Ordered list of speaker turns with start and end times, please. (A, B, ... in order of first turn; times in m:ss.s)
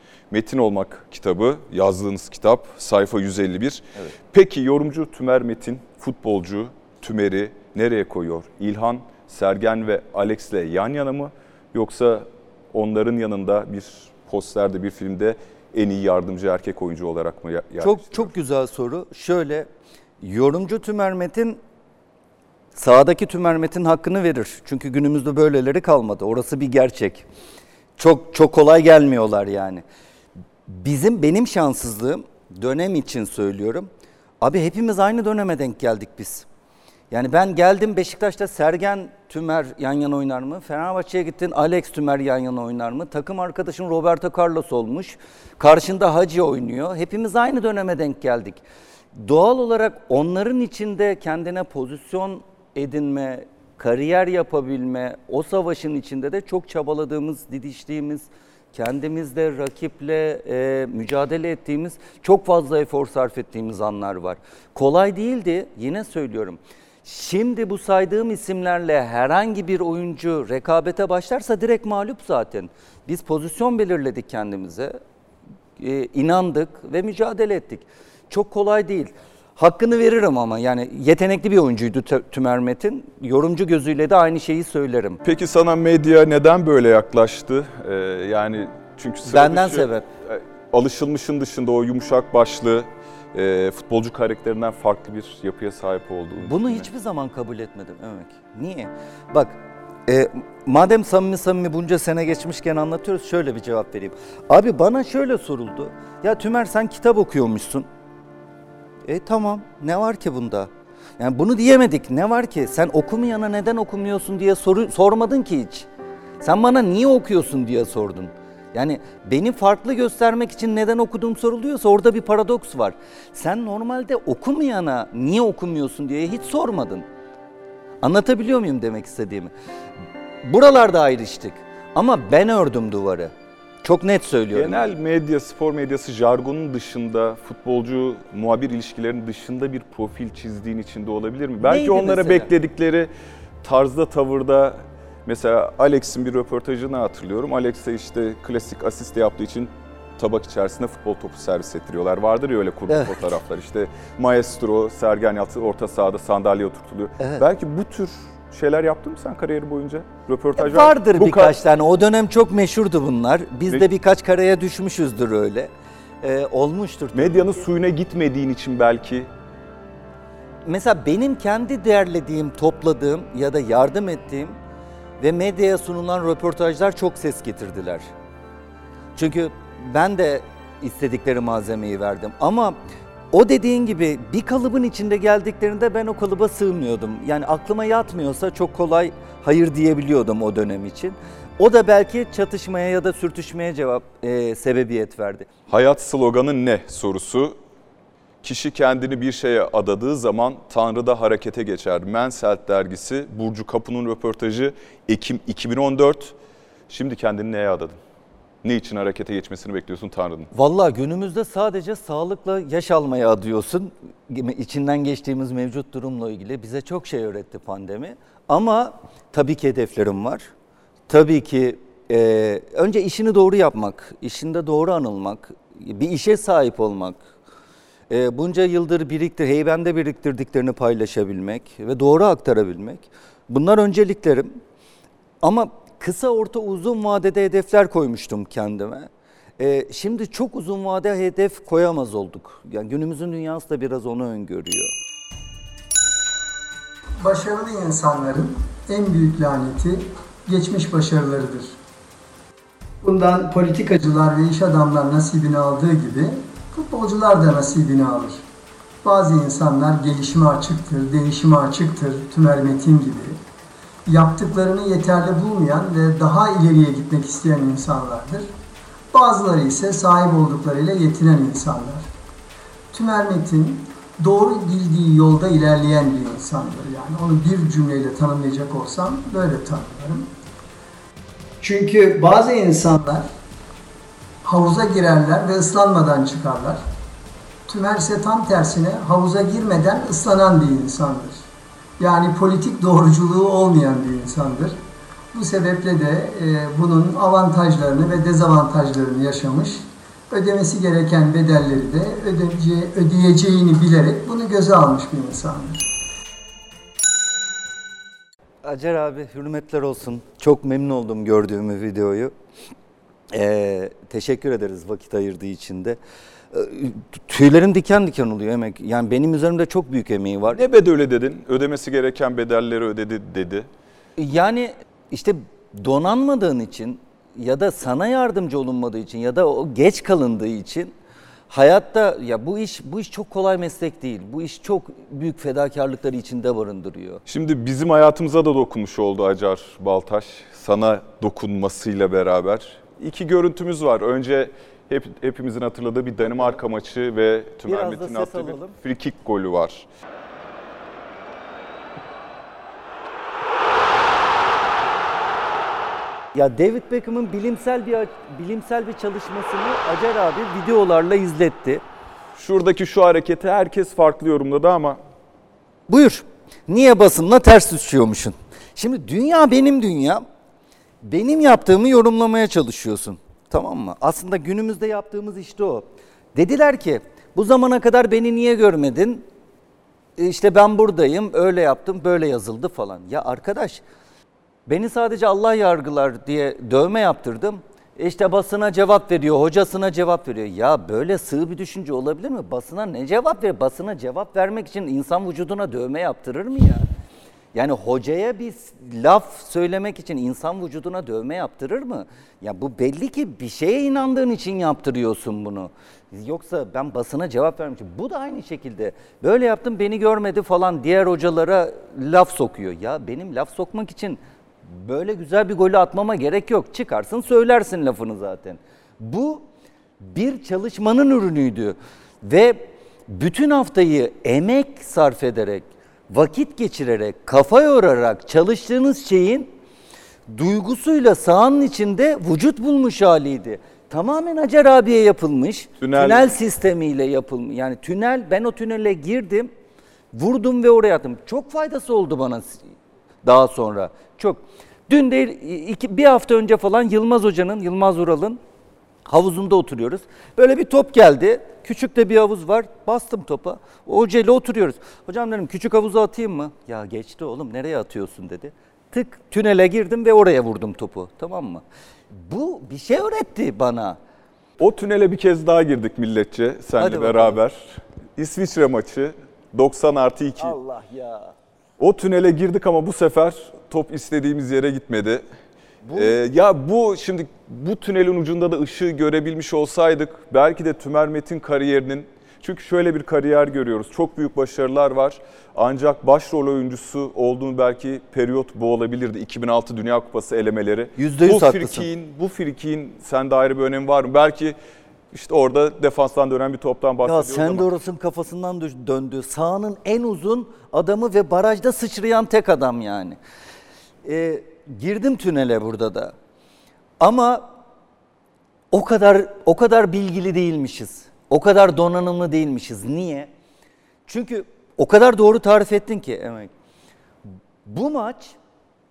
0:00.3-0:18.3 A
0:17.8-0:19.7 B
0:20.2-0:21.6 B
0:22.7-0:27.2 B
0:28.0-0:29.8 B
0:30.7-0:33.9 B
0:34.4-0:36.4 B
0:37.1-0:48.6 B
0:49.1-1:15.0 B
1:15.8-1:25.2 B
1:25.2-1:36.9 A
1:29.2-1:30.0 B
1:36.4-1:47.9 B
1:49.1-1:55.9 B
1:56.4-2:07.0 B
2:08.0-2:09.5 B
2:10.4-2:14.8 B
2:14.5-2:23.1 A
2:21.6-2:22.5 B
2:23.6-2:41.6 A
2:32.9-2:33.2 B
2:37.2-2:37.4 B
2:40.6-2:47.7 B
2:47.1-2:49.3 A
2:50.6-2:54.6 B
2:55.2-2:58.1 B
2:59.2-3:02.8 B
3:03.3-3:15.5 B
3:15.7-3:17.6 A
3:18.4-3:26.4 A
3:26.9-3:28.0 A
3:28.6-3:30.5 A
3:30.5-3:40.5 B
3:41.1-3:47.2 B
3:48.1-3:54.6 B
3:55.4-4:04.9 B
4:07.2-4:11.7 C
4:13.0-4:18.4 C
4:19.0-4:23.4 C
4:24.0-4:28.5 C
4:29.1-4:32.1 C
4:32.9-4:40.3 C
4:41.6-4:43.3 C
4:44.4-4:46.8 C
4:47.7-4:51.4 C
4:52.0-4:54.8 C
4:55.3-5:05.9 C
5:08.6-5:12.3 B
5:13.3-5:16.0 B
5:16.5-5:20.6 B
5:20.5-5:23.7 A
5:24.2-5:30.9 B
5:31.5-5:37.2 B
5:37.3-5:49.8 A
5:47.7-5:48.8 B
5:56.3-6:01.8 B
6:02.4-6:05.0 A
6:05.9-6:10.2 B
6:11.0-6:19.2 B
6:20.2-6:23.8 B
6:24.7-6:36.9 B
6:37.5-6:59.4 B
7:00.0-7:09.5 B
7:10.3-7:19.5 B
7:15.8-7:16.3 A
7:20.1-7:22.7 B
7:23.2-7:28.4 B
7:29.0-7:44.0 B
7:44.6-7:50.6 A
7:46.8-7:47.4 B
7:50.4-7:51.3 B
7:51.8-7:55.2 A
7:55.8-7:56.2 B
7:55.9-8:14.6 A
8:11.0-8:11.9 B
8:15.1-8:17.7 A
8:17.0-8:23.2 B
8:24.0-8:26.1 B
8:27.0-8:27.6 B
8:28.7-8:33.3 B
8:34.1-8:36.5 B
8:37.6-8:38.4 B